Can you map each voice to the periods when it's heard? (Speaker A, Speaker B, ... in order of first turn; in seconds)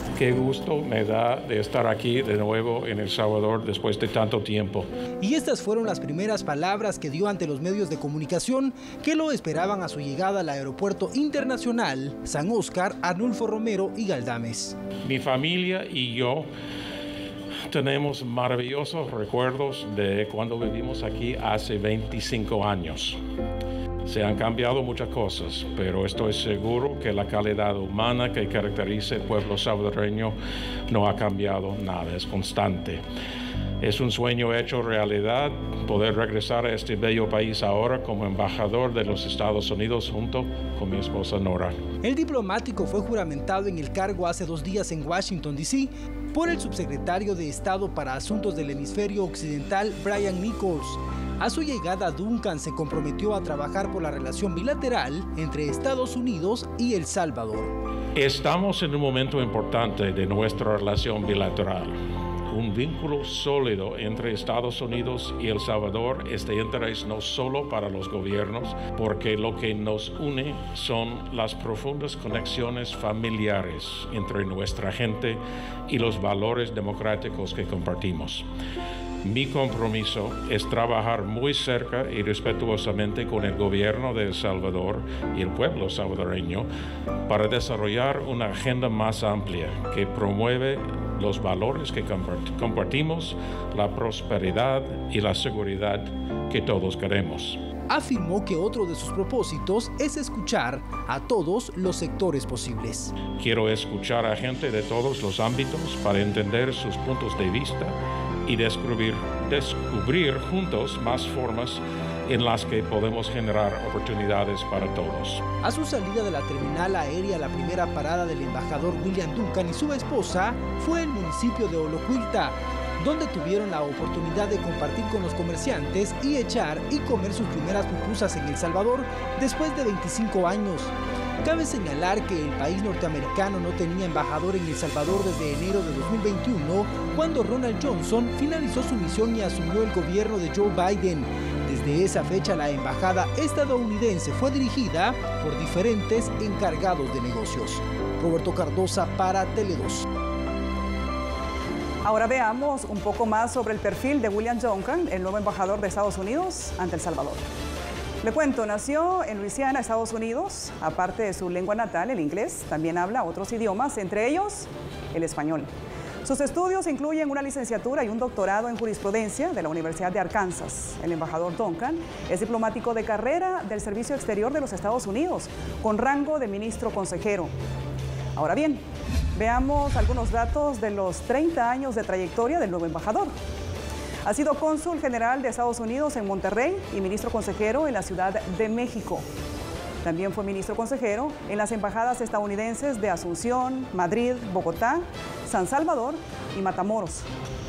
Speaker A: 0.1-4.9, 15.0-16.5, 17.7-23.2, 24.0-30.3, 30.9-33.0, 33.8-41.7, 58.1-62.0, 62.5-78.5, 79.2-86.7, 87.3-97.6, 103.4-115.4
Speaker B: 5.2-14.8, 42.0-57.7, 97.9-103.1, 115.6-150.1
Speaker C: 152.0-157.5, 158.2-165.7, 166.2-177.5, 178.3-178.8, 179.3-183.3, 184.2-189.2, 190.0-197.2